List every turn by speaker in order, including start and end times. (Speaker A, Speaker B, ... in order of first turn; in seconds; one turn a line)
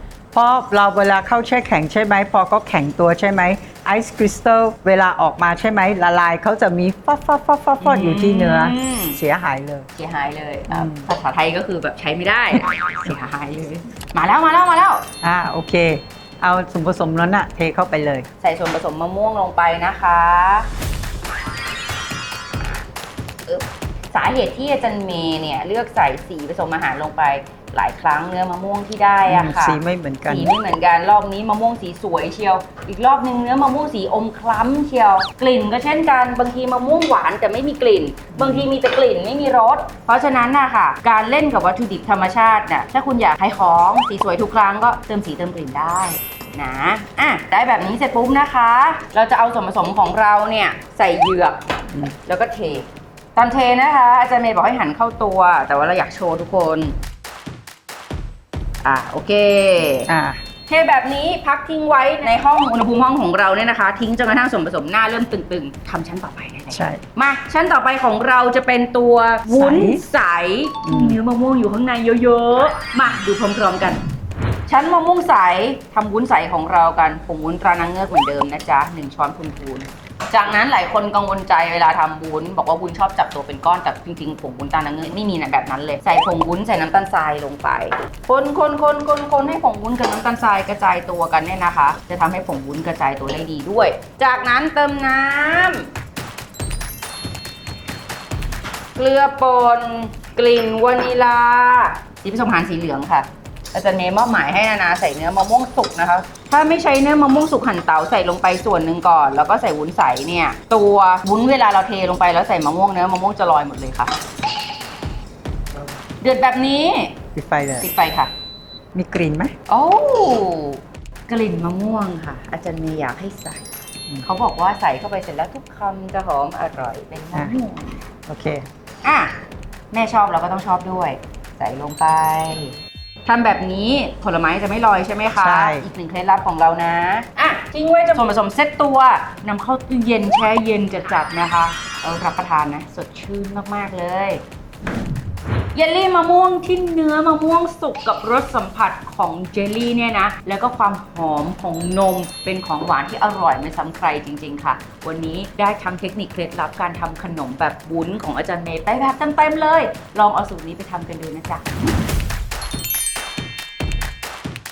Speaker A: 0.3-9.8
Speaker B: 7.8-9.2
Speaker B: 9.9-15.1
Speaker A: 10.7-11.1
Speaker A: 15.2-18.3
Speaker B: 18.4-20.7
Speaker B: 22.6-22.8
Speaker B: 23.4-56.9
Speaker A: 29.2-30.5
Speaker A: 38.3-38.7
Speaker B: 58.8-60.1
Speaker A: 60.1-60.4
Speaker B: 60.7-74.0
Speaker A: 66.7-67.0
Speaker A: 69.5-70.0
Speaker A: 70.8-71.2
Speaker B: 74.7-95.9
Speaker B: 99.0-114.1
Speaker B: 116.2-117.2
Speaker A: 117.3-117.8
Speaker B: 117.8-118.3
Speaker A: 118.9-119.5
Speaker B: 119.7-123.6
Speaker B: 124.2-128.0
Speaker A: 128.3-128.7
Speaker B: 129.0-129.3
Speaker B: 129.9-132.7
Speaker B: 133.2-144.4
Speaker A: 135.4-135.8
Speaker B: 145.7-161.7